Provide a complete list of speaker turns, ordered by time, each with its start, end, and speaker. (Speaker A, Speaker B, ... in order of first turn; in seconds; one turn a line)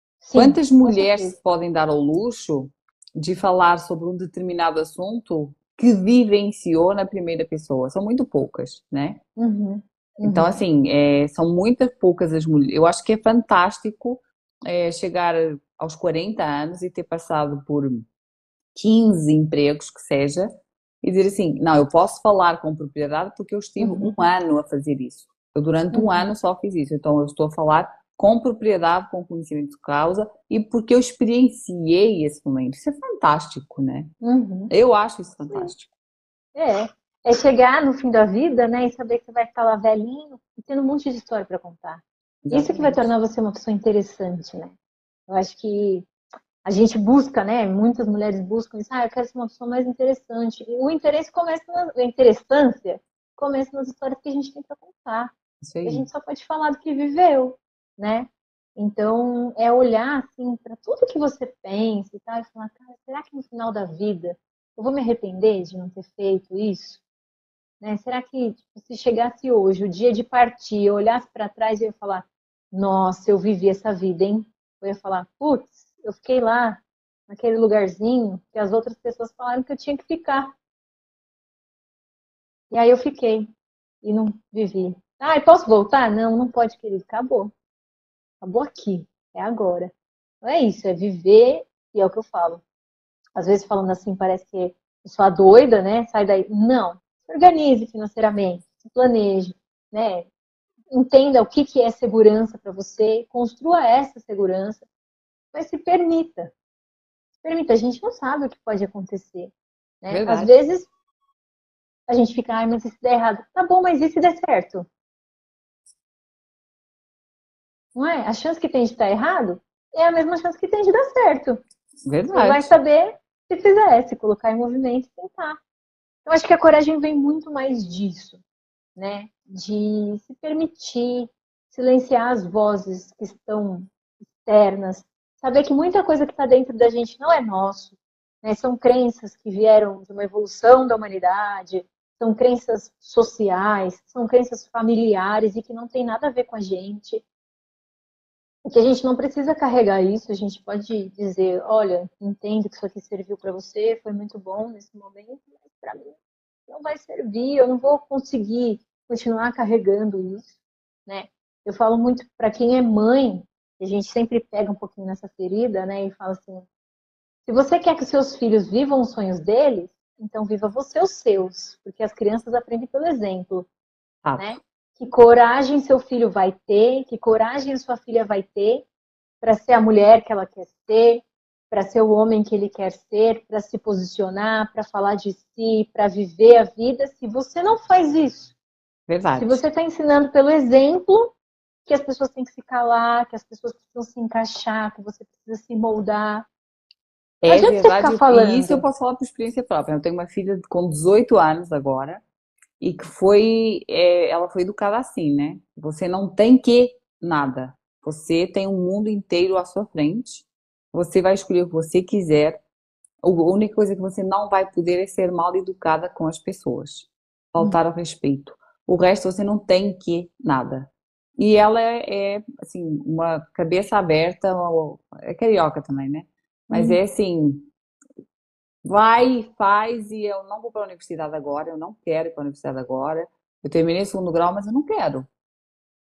Speaker A: 0.2-1.4
Speaker B: 0.3-9.2
Speaker A: 9.4-10.6
Speaker B: 10.2-18.1
Speaker B: 18.8-20.5
Speaker B: 21.0-34.1
Speaker A: 23.8-24.1
Speaker A: 25.9-26.3
Speaker A: 34.2-34.7
Speaker B: 34.7-35.9
Speaker A: 36.5-44.8
Speaker B: 42.4-43.1
Speaker A: 45.3-46.1
Speaker A: 46.6-67.0
Speaker B: 55.6-56.1
Speaker A: 67.8-80.5
Speaker A: 82.7-83.5
Speaker A: 84.0-87.5
Speaker A: 88.4-89.9
Speaker A: 90.4-92.6
Speaker A: 93.4-100.3
Speaker A: 100.9-104.8
Speaker A: 105.5-106.5
Speaker A: 107.4-110.9
Speaker B: 110.1-110.5
Speaker A: 112.1-114.9
Speaker A: 118.0-121.6
Speaker B: 122.0-122.7
Speaker A: 122.3-125.6
Speaker A: 126.3-128.4
Speaker A: 129.0-147.2
Speaker A: 148.7-156.2
Speaker A: 156.7-160.6
Speaker A: 161.1-166.7
Speaker A: 167.5-173.7
Speaker B: 174.2-174.6
Speaker A: 174.4-178.9
Speaker A: 179.4-188.6
Speaker B: 189.1-189.6
Speaker A: 189.4-191.3
Speaker A: 191.9-196.5
Speaker B: 197.4-202.2
Speaker A: 197.5-198.8
Speaker B: 202.8-212.6
Speaker B: 213.2-227.7
Speaker A: 226.7-227.0
Speaker B: 228.8-235.3